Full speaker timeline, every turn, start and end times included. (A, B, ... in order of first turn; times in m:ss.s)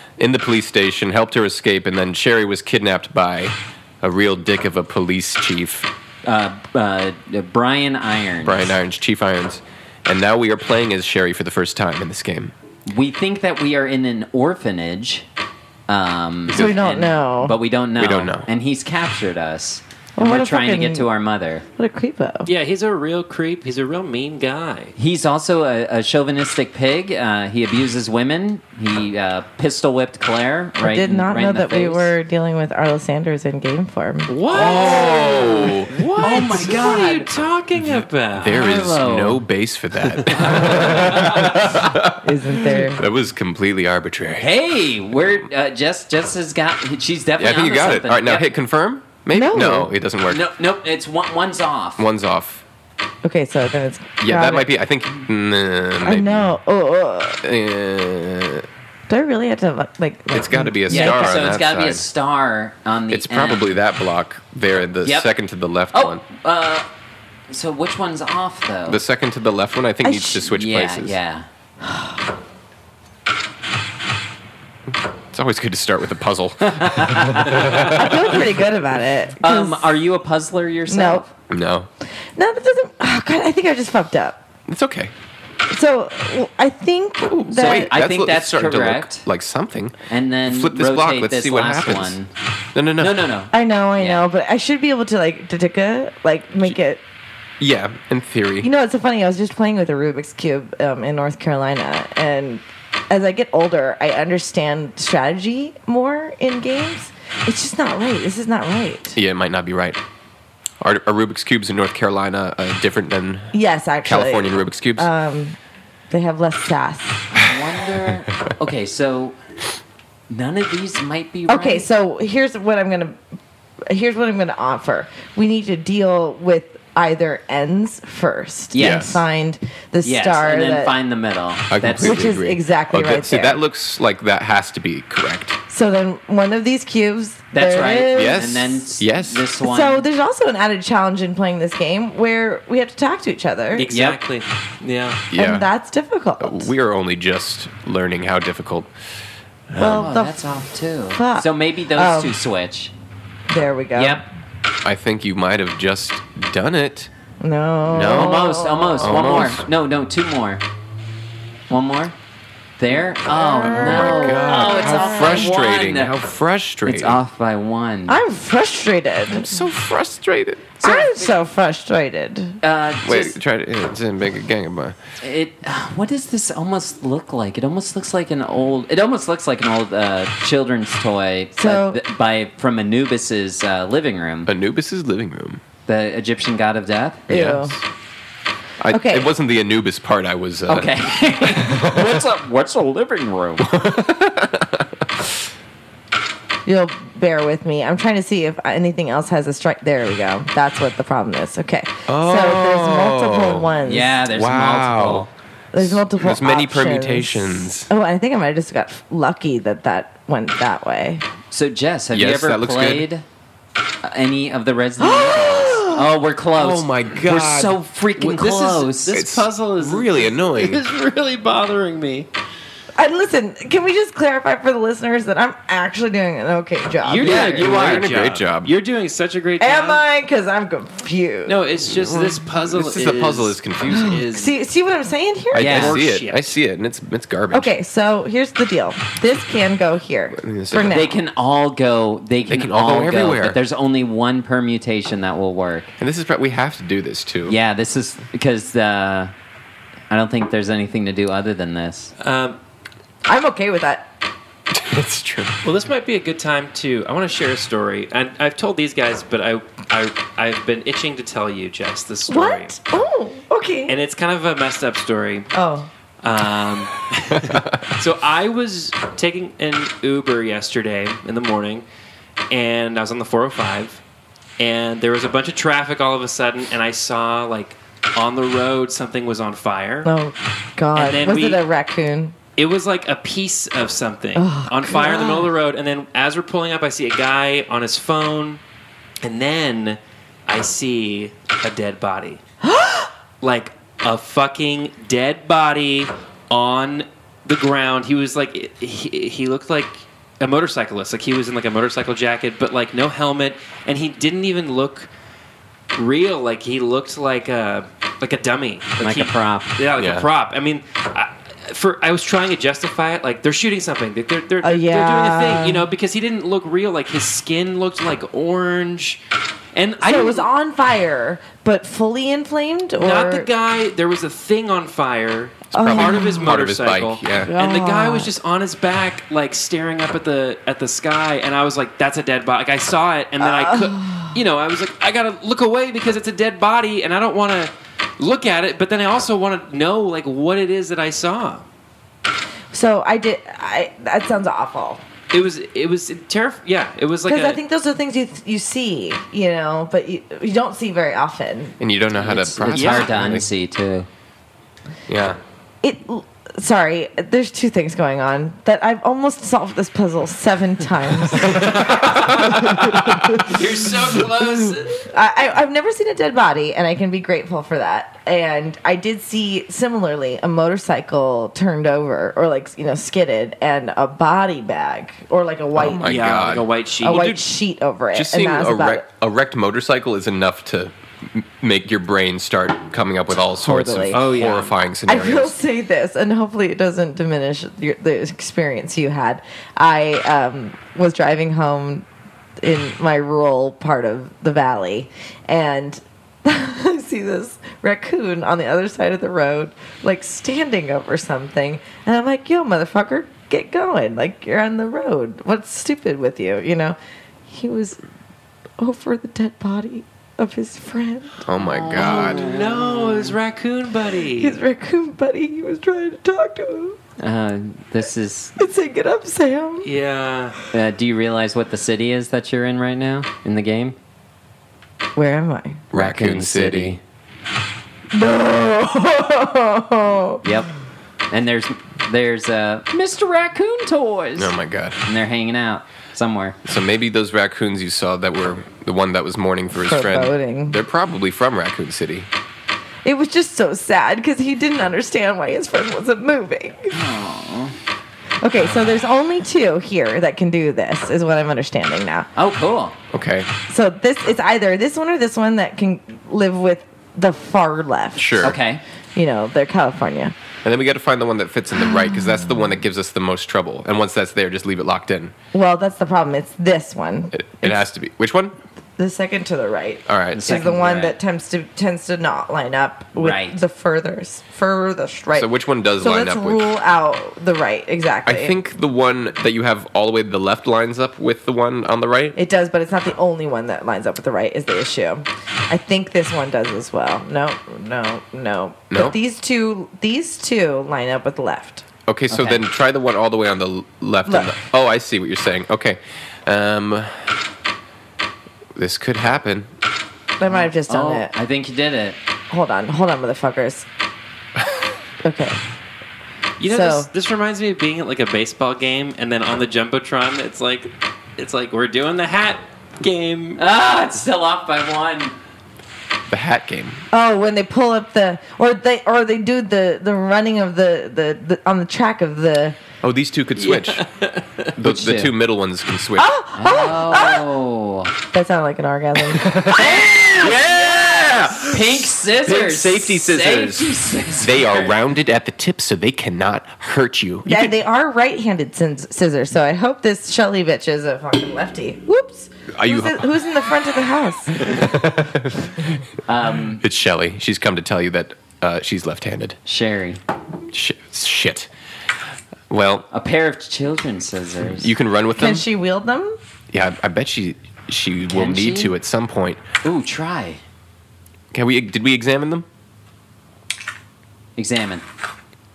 0:00.2-0:05.9 A
0:06.2-0:08.7 B
0:08.4-0:12.5 A
0:12.9-0:15.2 B
0:15.9-0:21.6 B
0:16.5-0:16.9 A
0:16.5-0:17.6 C
0:18.0-0:18.5 A
0:20.2-0:21.1 C
0:21.8-0:22.5 C
0:22.4-0:24.9 D
0:25.0-0:32.1 B
0:30.8-0:34.3 C
0:34.3-0:38.6 D
0:34.5-0:36.0 A
0:34.6-0:35.7 B
0:36.2-0:37.3 B
0:37.9-0:44.5 A
0:38.5-0:39.4 B
0:40.2-0:41.3 D
0:40.3-0:41.6 B
0:42.2-0:43.0 C
0:44.4-0:48.5 B
0:47.4-0:50.4 A
0:49.3-0:49.9 C
0:50.3-0:52.1 B
0:52.0-0:52.6 A
0:53.2-0:54.7 C
0:54.2-0:56.6 A
0:56.0-0:57.4 C
0:57.4-0:58.7 A
0:59.1-1:01.4 C
1:00.3-1:02.0 A
1:00.9-1:03.8 B
1:03.1-1:06.2 A
1:05.0-1:05.3 B
1:05.9-1:06.9 B
1:07.5-1:09.0 B
1:08.9-1:11.2 A
1:10.0-1:10.5 C
1:10.5-1:11.5 B
1:11.8-1:12.2 C
1:15.3-1:18.5 A
1:16.7-1:17.7 B
1:17.8-1:19.9 C
1:19.4-1:21.3 B
1:20.9-1:21.3 C
1:21.5-1:21.9 A
1:22.3-1:24.4 C
1:24.7-1:25.1 A
1:25.7-1:27.9 C
1:27.2-1:29.9 A
1:27.5-1:29.3 B
1:30.1-1:32.3 B
1:30.4-1:32.2 A
1:32.7-1:33.2 A
1:33.0-1:34.2 B
1:33.5-1:37.0 C
1:37.6-1:38.7 A
1:38.6-1:49.2 C
1:49.2-1:50.0 A
1:50.8-1:55.1 A
1:53.5-1:55.6 C
1:56.1-1:57.3 C
1:57.3-1:59.4 B
2:00.3-2:01.9 B
2:01.5-2:03.2 C
2:03.9-2:11.0 C
2:08.7-2:09.2 B
2:08.8-2:09.2 A
2:10.0-2:12.3 B
2:11.7-2:15.6 A
2:12.0-2:13.6 C
2:15.7-2:18.5 C
2:17.5-2:20.1 B
2:18.1-2:19.4 A
2:19.6-2:23.9 C
2:23.7-2:25.2 D
2:23.9-2:24.2 B
2:25.3-2:25.7 A
2:25.3-2:26.7 C
2:26.4-2:28.9 A
2:29.7-2:30.1 A
2:29.8-2:32.4 C
2:29.8-2:32.9 B
2:33.5-2:34.2 C
2:33.9-2:34.2 B
2:34.8-2:37.1 A
2:37.4-2:39.4 C
2:37.9-2:39.6 A
2:37.9-2:40.6 B
2:41.7-2:42.1 B
2:42.8-2:46.1 B
2:43.3-2:45.5 C
2:43.6-2:47.2 A
2:46.8-2:48.2 B
2:48.1-2:49.5 C
2:49.3-2:50.7 A
2:50.8-2:51.4 B
2:50.8-2:52.6 C
2:52.6-2:53.4 B
2:53.0-2:55.0 A
2:55.2-3:04.5 B
3:01.6-3:02.0 C
3:04.4-3:05.6 A
3:05.9-3:07.3 B
3:07.3-3:07.8 C
3:07.3-3:07.8 A
3:08.8-3:10.9 A
3:08.9-3:09.3 C
3:10.7-3:13.7 B
3:11.5-3:12.2 A
3:13.6-3:15.3 A
3:16.6-3:24.2 C
3:22.1-3:23.7 A
3:23.8-3:25.3 B
3:24.3-3:27.9 A
3:25.7-3:31.2 C
3:31.5-3:33.2 B
3:32.1-3:33.1 A
3:34.0-3:39.2 B
3:35.0-3:36.0 C
3:36.5-3:38.5 A
3:38.2-3:42.3 D
3:39.0-3:40.8 A
3:43.0-3:47.7 C
3:47.0-3:50.0 D
3:47.2-3:48.0 B
3:47.3-3:48.7 A
3:49.6-3:51.6 C
3:51.4-3:54.6 D
3:51.8-3:54.2 A
3:53.9-3:55.8 C
3:55.5-3:57.7 A
3:55.6-3:56.0 B
3:55.7-3:56.6 D
3:57.5-4:01.2 C
4:00.4-4:01.1 A
4:00.9-4:05.9 B
4:02.4-4:03.6 A
4:06.0-4:07.6 A
4:07.4-4:09.3 B
4:10.1-4:12.1 B
4:12.2-4:12.6 D
4:13.3-4:14.1 C
4:14.7-4:15.5 A
4:15.6-4:22.8 D
4:22.3-4:24.0 C
4:23.9-4:25.5 D
4:25.5-4:25.9 C
4:26.2-4:31.8 D
4:27.3-4:27.8 A
4:32.5-4:34.0 D
4:34.6-4:40.1 D
4:40.0-4:42.4 C
4:40.9-4:41.6 D
4:42.6-4:48.6 D
4:44.4-4:45.5 C
4:49.2-4:52.4 D
4:52.6-4:53.1 C
4:53.4-5:05.1 D
5:05.9-5:19.2 D
5:09.0-5:09.7 B
5:10.0-5:10.3 A
5:14.6-5:15.9 C
5:19.7-5:20.5 D
5:20.0-5:23.5 C
5:23.0-5:41.6 D
5:25.7-5:27.5 A
5:25.7-5:26.5 C
5:27.4-5:28.3 C
5:33.4-5:34.4 C
5:42.7-5:45.0 C
5:45.3-5:47.6 D
5:47.3-5:51.8 C
5:51.8-5:53.5 A
5:52.2-5:54.1 B
5:52.7-5:53.3 D
5:55.1-5:55.4 A
5:55.8-6:03.5 C
6:01.5-6:05.1 D
6:05.1-6:16.1 C
6:15.7-6:16.7 A
6:16.0-6:17.4 D
6:17.0-6:19.0 C
6:18.1-6:25.6 A
6:23.6-6:24.3 C
6:24.1-6:24.7 D
6:25.1-6:32.0 C
6:32.6-6:47.0 C
6:47.5-6:48.0 C
6:48.8-6:51.4 C
6:51.4-6:52.4 A
6:51.6-6:53.3 B
6:51.9-6:54.6 D
6:54.4-6:57.0 C
6:57.2-6:58.5 B
6:58.6-6:59.9 C
6:59.8-7:00.6 D
7:00.7-7:04.0 B
7:05.2-7:05.8 C
7:05.9-7:07.0 A
7:05.9-7:07.0 B
7:08.1-7:10.4 C
7:10.4-7:10.7 B
7:11.3-7:14.5 B
7:14.4-7:15.0 A
7:15.0-7:16.6 B
7:16.6-7:22.3 A
7:19.7-7:20.8 C
7:23.0-7:26.9 C
7:26.9-7:27.7 B
7:28.4-7:32.3 C
7:32.4-7:33.0 B
7:33.1-7:33.5 A
7:33.7-7:38.5 C
7:38.2-7:38.6 A
7:38.4-7:38.8 B
7:39.1-7:40.3 C
7:40.6-7:45.3 A
7:41.9-7:42.4 C
7:45.5-7:47.8 C
7:47.3-7:48.5 A
7:49.0-7:55.5 C
7:50.1-7:50.5 A
7:50.3-7:51.2 B
7:53.2-7:53.6 B
7:55.3-7:56.6 A
7:56.0-7:58.6 C
7:58.2-8:02.4 A
8:02.3-8:11.8 C
8:08.9-8:09.2 A
8:12.1-8:17.3 A
8:12.3-8:12.6 B
8:14.2-8:14.5 C
8:18.7-8:19.7 A
8:20.4-8:21.3 C
8:20.4-8:22.2 B
8:22.5-8:23.8 C
8:25.2-8:25.6 C
8:26.6-8:33.6 D
8:26.6-8:27.1 C
8:33.6-8:35.3 B
8:36.3-8:37.0 A
8:37.1-8:42.8 C
8:43.0-8:44.0 A
8:43.6-8:44.7 D
8:44.7-8:46.3 A
8:44.8-8:45.3 B
8:46.2-8:47.5 C
8:46.6-8:48.1 B
8:48.3-8:49.6 C
8:49.3-8:57.8 A
8:49.7-8:54.9 B
8:57.4-9:04.8 C
9:02.7-9:03.3 A
9:04.6-9:05.9 A
9:06.3-9:06.8 B
9:06.7-9:09.6 A
9:09.6-9:10.2 B
9:10.7-9:11.7 A
9:12.7-9:13.1 A
9:13.1-9:14.9 B
9:14.6-9:15.7 A
9:15.4-9:16.4 C
9:16.7-9:19.6 A
9:18.3-9:18.9 B
9:19.8-9:20.6 B
9:21.5-9:22.6 A
9:24.6-9:25.0 B